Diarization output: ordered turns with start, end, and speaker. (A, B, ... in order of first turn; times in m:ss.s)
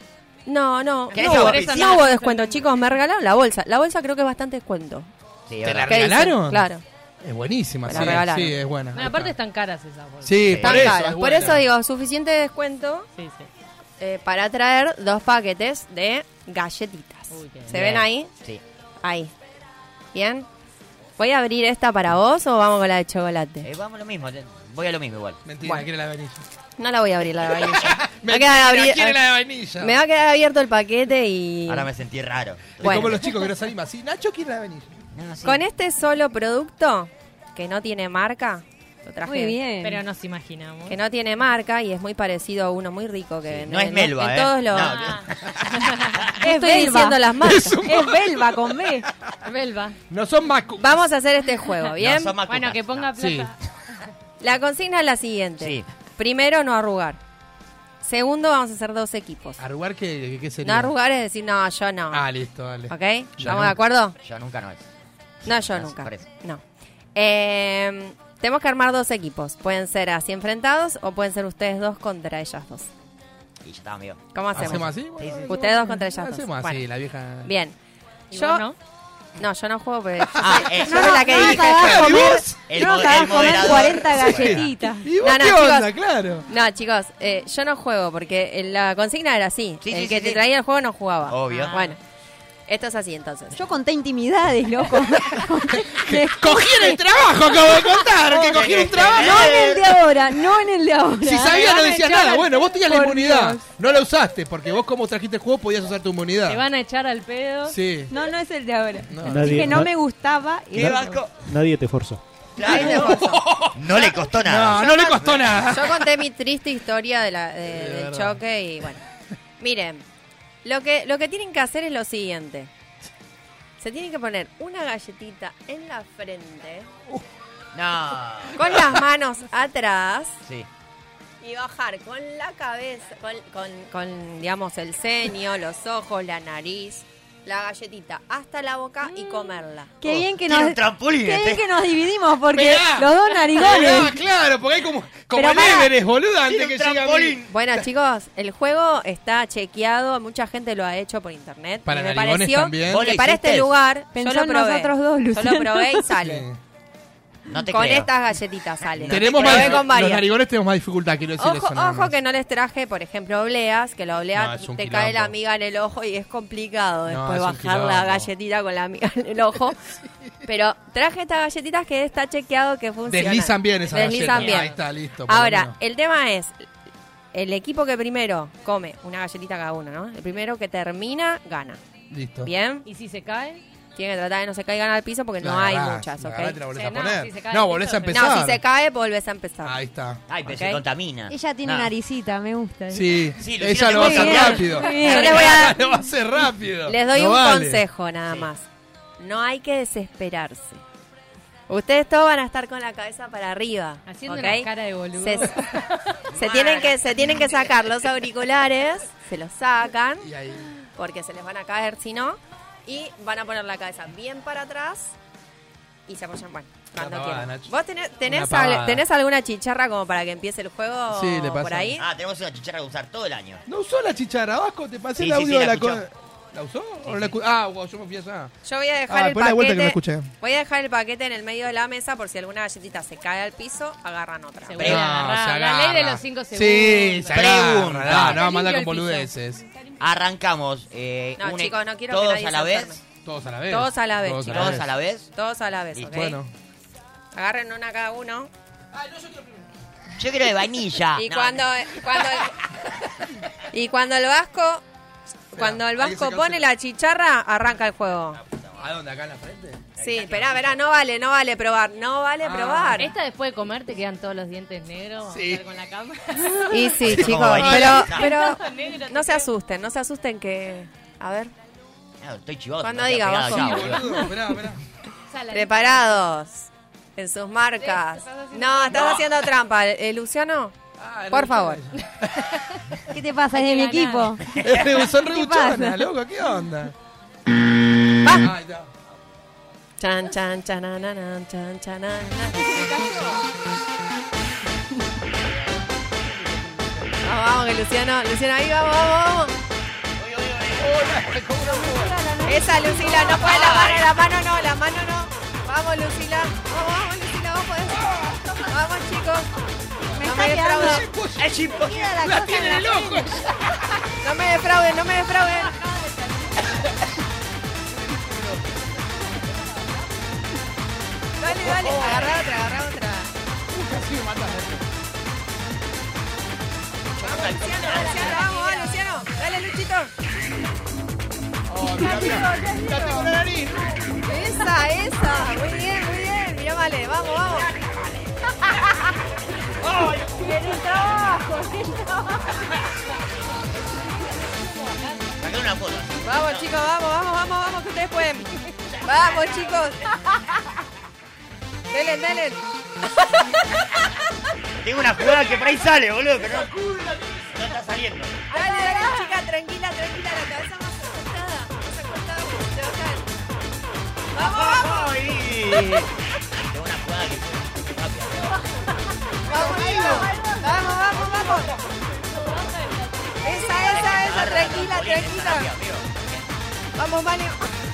0:00.4-0:05.1 A
0:01.1-0:02.7 B
0:01.1-0:02.0 C
0:05.5-0:06.1 C
0:05.6-0:06.7 D
0:05.9-0:06.8 A
0:07.2-0:09.3 D
0:07.8-0:08.6 A
0:08.9-0:10.5 B
0:10.2-0:11.6 D
0:10.5-0:11.0 C
0:10.5-0:13.1 A
0:13.2-0:13.5 B
0:14.0-0:18.3 A
0:17.3-0:17.7 B
0:17.7-0:18.6 C
0:19.0-0:19.3 A
0:20.1-0:20.5 A
0:21.2-0:23.7 A
0:23.6-0:25.4 C
0:25.4-0:26.4 D
0:26.8-0:29.2 A
0:27.6-0:30.0 D
0:29.8-0:31.9 A
0:31.7-0:33.3 C
0:32.8-0:35.0 D
0:32.8-0:33.2 A
0:35.1-0:35.6 C
0:35.4-0:39.6 A
0:39.2-0:40.0 E
0:39.8-0:41.0 B
0:40.9-0:45.0 A
0:43.4-0:45.6 C
0:44.8-0:46.2 B
0:46.4-0:47.8 A
0:46.4-0:47.2 E
0:47.4-0:49.0 D
0:47.8-0:49.1 E
0:49.4-0:50.0 B
0:50.1-0:51.0 D
0:50.8-0:52.4 A
0:52.0-0:53.1 C
0:52.4-0:54.0 B
0:53.2-0:53.5 D
0:54.4-0:57.2 A
0:55.6-0:55.9 C
0:58.0-0:59.6 A
0:59.6-1:00.9 D
1:00.6-1:02.2 A
1:02.1-1:03.7 D
1:02.9-1:04.2 A
1:04.2-1:04.9 C
1:05.4-1:06.3 C
1:05.4-1:06.6 A
1:07.1-1:12.9 A
1:13.6-1:15.6 C
1:14.3-1:16.8 A
1:14.5-1:17.5 D
1:17.4-1:17.7 A
1:18.3-1:18.7 A
1:18.3-1:18.8 B
1:19.4-1:22.1 A
1:20.2-1:26.5 D
1:20.4-1:24.7 C
1:20.8-1:25.1 E
1:25.1-1:25.9 A
1:26.5-1:32.0 A
1:29.8-1:30.4 C
1:31.3-1:31.8 C
1:31.5-1:31.9 B
1:32.7-1:33.6 A
1:33.5-1:37.0 E
1:35.7-1:39.8 D
1:38.4-1:43.6 E
1:38.4-1:39.9 C
1:41.2-1:46.6 D
1:46.5-1:47.8 B
1:47.7-1:48.1 D
1:48.1-1:51.1 E
1:49.1-1:49.9 D
1:49.2-1:49.9 F
1:50.7-1:51.4 C
1:50.7-1:52.2 F
1:52.6-1:55.6 C
1:52.6-1:56.1 D
1:52.7-1:53.2 A
1:54.8-1:59.0 A
1:57.7-1:58.4 D
1:59.6-2:00.0 A
2:00.6-2:02.7 A
2:03.8-2:06.9 A
2:07.7-2:09.0 C
2:08.6-2:10.4 A
2:11.4-2:20.0 A
2:19.0-2:19.6 B
2:20.0-2:24.2 E
2:20.0-2:21.7 C
2:22.5-2:27.5 D
2:25.3-2:25.9 E
2:26.4-2:27.5 C
2:27.5-2:36.5 A
2:31.8-2:33.1 D
2:32.8-2:33.7 C
2:34.1-2:36.1 E
2:36.2-2:36.6 D
2:37.5-2:38.1 C
2:37.6-2:40.3 A
2:38.8-2:39.9 C
2:39.1-2:42.2 D
2:41.4-2:49.8 A
2:44.3-2:45.3 D
2:47.1-2:48.3 D
2:50.4-2:54.7 A
2:53.1-2:55.8 D
2:54.0-2:54.8 B
2:55.2-2:56.6 A
2:57.3-3:01.8 A
3:02.1-3:02.5 D
3:02.4-3:02.8 A
3:02.8-3:03.6 B
3:04.0-3:06.6 A
3:05.4-3:08.6 D
3:06.7-3:08.3 B
3:08.1-3:09.8 A
3:09.6-3:10.5 D
3:10.3-3:11.9 C
3:10.5-3:10.8 A
3:11.3-3:13.3 E
3:12.9-3:17.8 D
3:13.4-3:15.7 C
3:13.8-3:15.5 E
3:15.0-3:15.8 A
3:16.9-3:18.6 A
3:19.2-3:20.8 A
3:21.7-3:25.6 A
3:24.1-3:26.2 B
3:26.3-3:27.6 C
3:26.3-3:30.3 A
3:30.2-3:30.7 D
3:31.0-3:35.1 A
3:36.1-3:42.0 A
3:37.0-3:37.7 D
3:38.2-3:39.0 D
3:41.1-3:42.0 D
3:42.0-3:43.6 C
3:43.7-3:48.5 D
3:45.2-3:46.0 C
3:47.0-3:47.3 C
3:48.6-3:54.9 A
3:49.1-3:50.3 D
3:54.6-3:57.4 B
3:54.8-3:55.0 C
3:54.8-3:59.6 D
3:57.3-3:58.4 C
3:58.3-3:59.3 B
4:00.0-4:03.0 C
4:01.4-4:03.0 A
4:03.2-4:04.9 D
4:03.7-4:04.8 A
4:04.4-4:05.3 C
4:05.3-4:06.4 A
4:05.9-4:06.2 C
4:06.1-4:06.5 D
4:07.3-4:08.5 A
4:08.9-4:09.6 D
4:10.2-4:12.2 C
4:11.1-4:12.6 A
4:13.7-4:14.8 A
4:15.5-4:18.4 A
4:15.5-4:16.6 D
4:18.3-4:18.8 C
4:18.8-4:19.8 D
4:20.0-4:20.8 C
4:20.0-4:23.1 A
4:22.4-4:23.1 D
4:23.0-4:27.0 B
4:25.3-4:25.6 D
4:26.7-4:31.5 A
4:27.0-4:28.4 C
4:27.7-4:29.5 B
4:32.2-4:34.0 C
4:32.8-4:34.0 A
4:33.4-4:34.8 D
4:35.3-4:36.2 B
4:35.5-4:40.7 A
4:37.8-4:39.3 B
4:41.0-4:42.5 D
4:41.3-4:41.8 A
4:43.1-4:44.6 E
4:43.5-4:44.4 B
4:44.6-4:46.9 D
4:45.1-4:46.1 E
4:48.2-4:48.5 A
4:48.3-4:48.9 D
4:50.0-4:53.3 A
4:52.7-4:53.1 E
4:56.4-4:57.1 D
4:57.2-4:59.5 A
5:00.2-5:01.2 C
5:00.8-5:02.1 D
5:01.6-5:03.4 E
5:02.4-5:09.5 A
5:03.3-5:04.1 C
5:10.1-5:13.6 D
5:10.2-5:11.0 E
5:10.2-5:11.0 A
5:11.4-5:12.1 C
5:11.8-5:13.2 E
5:14.2-5:15.8 A
5:17.9-5:18.7 D
5:21.4-5:23.3 A
5:21.6-5:22.2 D
5:21.7-5:22.3 C
5:23.7-5:24.8 D
5:27.2-5:28.5 C
5:27.2-5:30.1 A
5:28.3-5:28.8 E
5:31.7-5:33.9 D
5:31.8-5:33.3 E
5:34.2-5:37.7 A
5:39.8-5:40.4 C
5:40.4-5:42.4 E
5:45.4-5:46.7 C
5:46.2-5:50.1 A
5:48.9-5:49.6 C
5:51.9-5:52.6 A
5:53.2-5:53.8 A
5:54.8-5:58.4 C
5:58.5-6:03.2 A
6:04.3-6:05.3 A
6:04.4-6:06.1 C
6:06.6-6:08.6 C
6:09.4-6:11.7 A
6:09.8-6:10.1 C
6:10.4-6:10.8 E
6:12.3-6:14.0 B
6:13.4-6:15.7 A
6:13.8-6:16.4 C
6:17.0-6:17.7 A